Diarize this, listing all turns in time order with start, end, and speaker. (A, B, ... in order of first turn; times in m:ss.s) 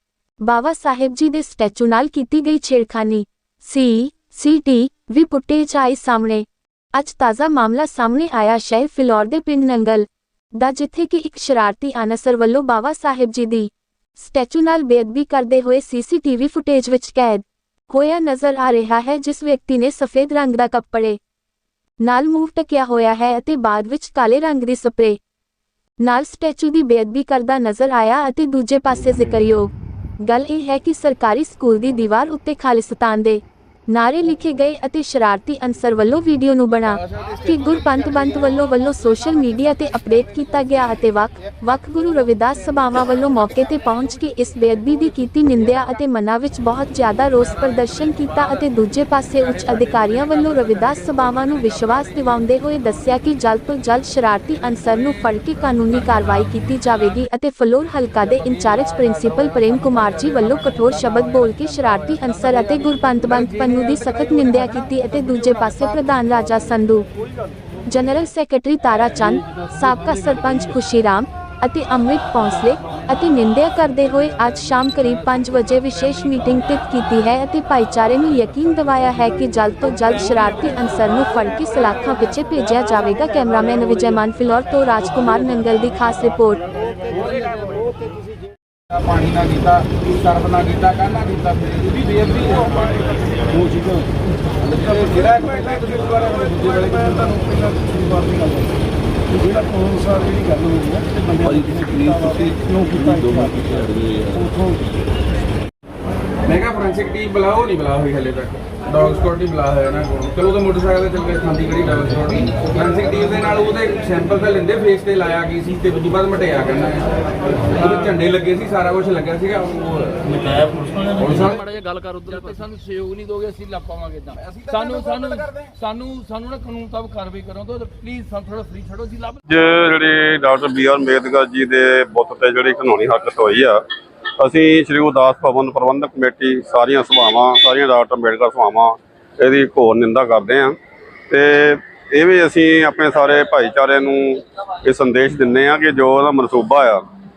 0:00.5-0:21.2 A
0:22.0-0:25.2 A
0:26.0-1:07.1 A
0:49.7-0:52.0 B
0:58.5-1:05.9 B
1:07.9-1:26.6 A
1:27.1-1:27.8 B
1:28.9-1:33.4 B
1:34.6-1:38.2 B
1:41.4-1:44.5 C
1:46.4-2:00.4 B
2:00.7-2:09.4 D
2:01.2-2:01.5 B
2:09.5-2:13.8 E
2:14.4-2:20.8 E
2:21.3-2:27.0 E